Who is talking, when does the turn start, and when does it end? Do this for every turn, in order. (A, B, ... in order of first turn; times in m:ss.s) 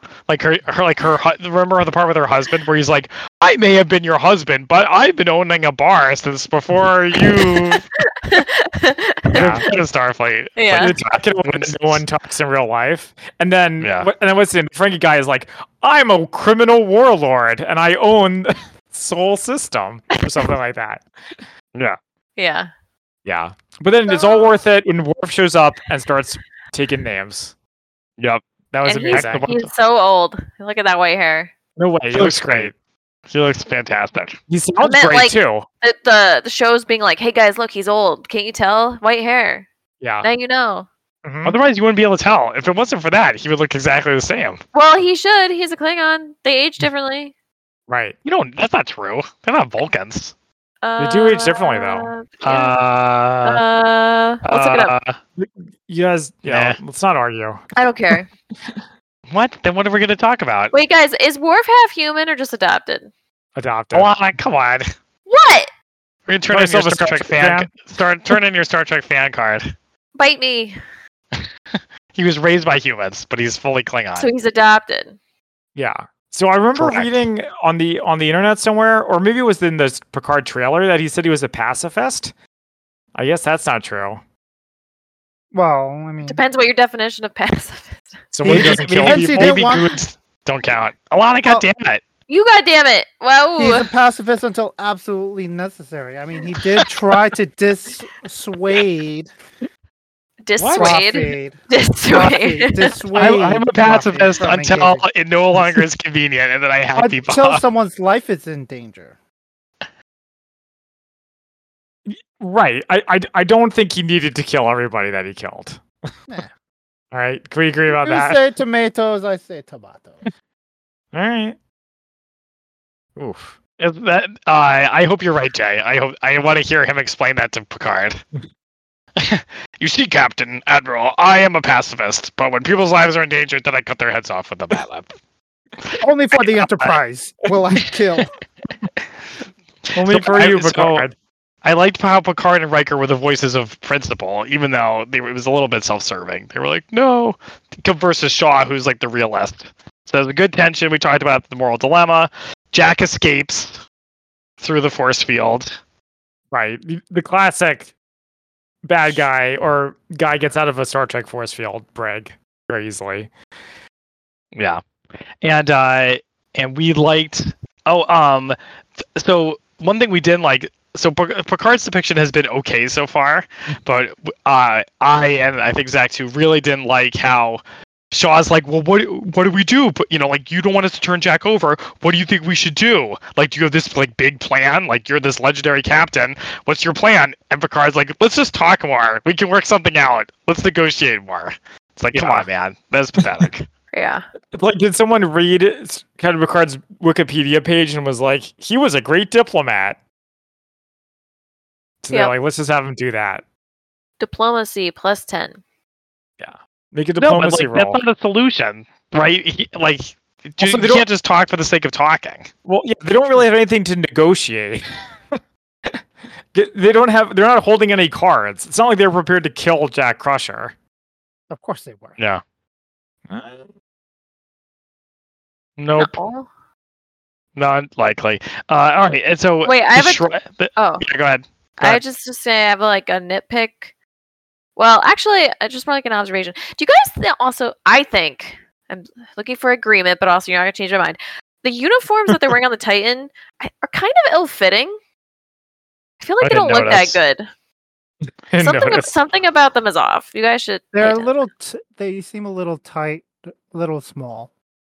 0:00.3-0:07.8 A
0:07.2-0:09.7 B
0:09.3-0:09.7 C
0:09.3-0:12.0 A
0:10.6-0:11.0 B
0:10.7-0:21.0 C
0:13.8-0:14.1 A
0:20.1-0:20.4 B
0:22.4-0:22.7 B
0:23.2-0:27.5 C
0:24.1-0:24.5 B
0:28.2-0:28.4 A
0:28.7-0:29.5 C
0:28.8-0:31.5 B
0:29.0-0:29.7 A
0:31.8-0:32.7 C
0:32.1-0:32.7 A
0:33.3-0:34.4 A
0:34.5-0:35.6 C
0:34.8-0:39.7 B
0:40.0-0:40.3 C
0:40.2-0:40.9 B
0:41.2-0:41.6 C
0:41.4-0:44.6 A
0:44.7-0:47.3 B
0:47.9-0:48.2 C
0:48.2-0:50.3 A
0:50.8-0:52.8 B
0:51.0-0:52.1 C
0:52.4-0:53.6 A
0:53.4-0:54.9 B
0:54.4-0:55.2 A
0:55.4-0:57.6 C
0:56.4-0:56.8 A
0:57.8-0:58.3 B
0:59.3-1:00.7 A
1:00.7-1:03.1 B
1:03.6-1:04.1 C
1:03.9-1:04.8 A
1:05.3-1:05.7 B
1:06.3-1:09.7 A
1:06.5-1:07.7 C
1:10.2-1:10.8 B
1:12.1-1:14.3 A
1:14.2-1:15.2 B
1:15.7-1:22.3 C
1:16.7-1:17.2 A
1:23.1-1:24.2 C
1:25.5-1:26.4 D
1:26.2-1:28.1 B
1:28.3-1:29.6 C
1:28.4-1:29.9 D
1:28.4-1:32.0 A
1:32.3-1:33.9 B
1:33.6-1:39.3 D
1:40.4-1:43.0 B
1:40.6-1:41.0 A
1:40.8-1:45.0 D
1:43.1-1:47.6 A
1:47.0-1:49.2 D
1:52.0-1:55.8 C
1:57.1-1:58.4 C
1:57.9-2:00.2 D
2:01.1-2:01.6 C
2:03.2-2:03.5 C
2:03.8-2:08.2 A
2:09.2-2:15.1 A
2:16.0-2:18.3 D
2:19.9-2:21.1 C
2:20.0-2:21.0 A
2:21.6-2:33.8 A
2:34.6-2:35.7 A
2:36.5-2:37.9 C
2:38.8-2:43.3 C
2:44.5-2:44.8 A
2:45.4-2:48.6 A
2:49.2-3:13.7 A
3:12.1-3:12.5 C
3:13.9-3:14.2 B
3:14.5-3:20.0 C
3:22.0-3:23.4 C
3:24.2-3:25.6 B
3:26.4-3:28.0 C
3:27.2-3:32.5 A
3:30.6-3:31.0 C
3:32.6-3:34.8 C
3:36.5-3:40.7 C
3:41.5-3:42.2 D
3:43.3-3:43.7 C
3:45.8-3:46.2 A
3:46.0-3:46.5 B
3:47.6-3:52.0 A
3:49.6-3:50.2 B
3:50.8-3:51.0 B
3:51.8-3:53.9 B
3:54.8-4:04.9 B
4:06.2-4:07.5 B
4:06.4-4:07.2 A
4:08.5-4:09.2 C
4:08.6-4:11.3 B
4:10.9-4:14.5 D